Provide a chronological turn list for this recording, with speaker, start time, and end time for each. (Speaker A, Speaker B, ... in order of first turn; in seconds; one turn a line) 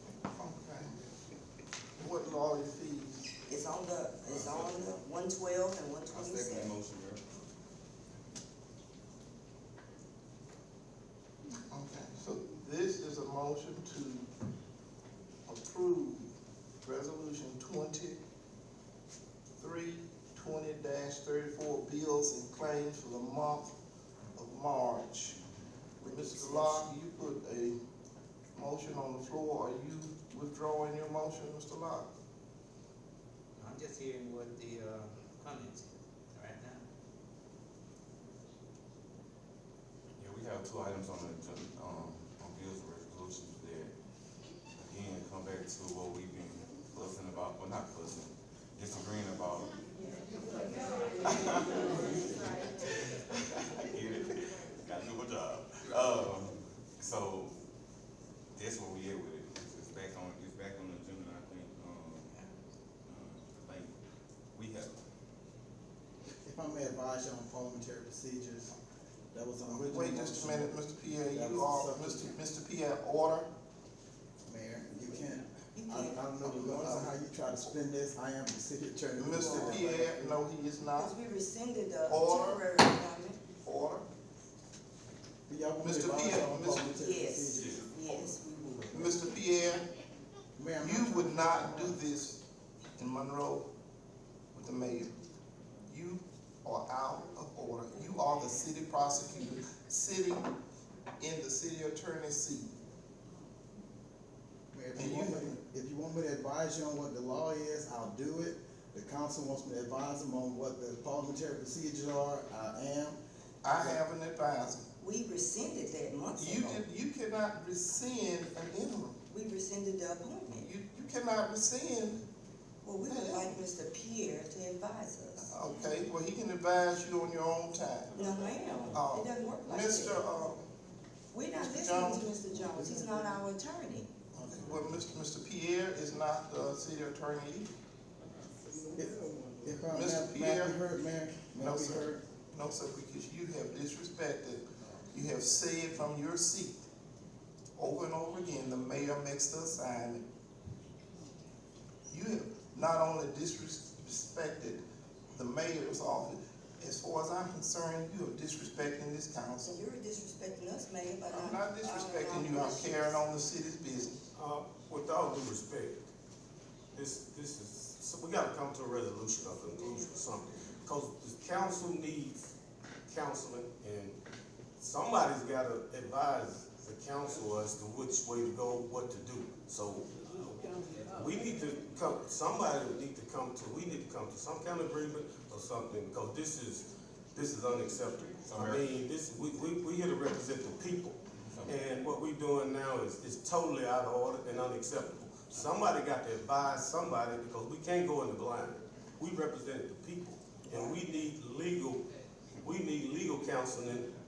Speaker A: 0.3-0.9
Speaker A: 2.0-3.3
Speaker B: 3.5-6.7
Speaker C: 4.3-4.8
Speaker C: 6.1-7.2
Speaker A: 11.7-14.3
Speaker A: 15.5-16.3
Speaker A: 16.8-18.2
Speaker A: 19.6-23.7
Speaker A: 24.3-25.4
Speaker A: 26.0-27.8
Speaker B: 26.0-26.9
Speaker A: 28.5-32.1
Speaker D: 33.6-36.8
Speaker C: 40.2-43.9
Speaker C: 44.8-49.7
Speaker C: 51.2-57.5
Speaker C: 58.5-62.4
Speaker C: 63.0-63.9
Speaker C: 64.5-65.0
Speaker E: 66.4-68.7
Speaker E: 69.3-70.7
Speaker A: 69.7-73.5
Speaker E: 71.3-72.3
Speaker E: 74.5-80.3
Speaker B: 75.7-76.2
Speaker A: 76.5-77.1
Speaker A: 79.2-81.1
Speaker B: 79.4-80.0
Speaker B: 81.0-83.4
Speaker A: 82.1-82.6
Speaker A: 83.6-84.0
Speaker E: 85.5-87.8
Speaker A: 85.8-87.0
Speaker B: 86.9-89.2
Speaker C: 87.6-87.8
Speaker A: 88.9-89.8
Speaker E: 90.5-92.0
Speaker A: 90.8-92.4
Speaker A: 93.0-93.7
Speaker A: 94.5-95.1
Speaker A: 95.9-100.5
Speaker A: 101.2-102.7
Speaker E: 104.7-114.0
Speaker A: 104.9-105.6
Speaker A: 113.6-114.8
Speaker B: 115.0-116.8
Speaker A: 116.3-119.2
Speaker B: 119.3-120.7
Speaker A: 120.6-122.2
Speaker B: 122.8-125.5
Speaker A: 123.1-123.5
Speaker A: 125.4-128.2
Speaker B: 128.1-130.2
Speaker A: 128.9-130.6
Speaker B: 131.3-134.1
Speaker A: 131.6-132.3
Speaker E: 132.5-133.3
Speaker A: 134.3-137.7
Speaker E: 138.9-142.2
Speaker A: 139.9-140.8
Speaker A: 141.6-146.8
Speaker A: 147.8-150.2
Speaker A: 152.1-154.8
Speaker A: 155.3-159.8
Speaker B: 159.6-163.2
Speaker A: 161.3-164.2
Speaker F: 164.3-166.0
Speaker F: 166.9-172.5
Speaker F: 173.1-174.2
Speaker F: 174.8-180.1
Speaker F: 181.1-202.0
Speaker C: 188.4-188.9
Speaker C: 191.4-191.8
Speaker F: 202.6-204.1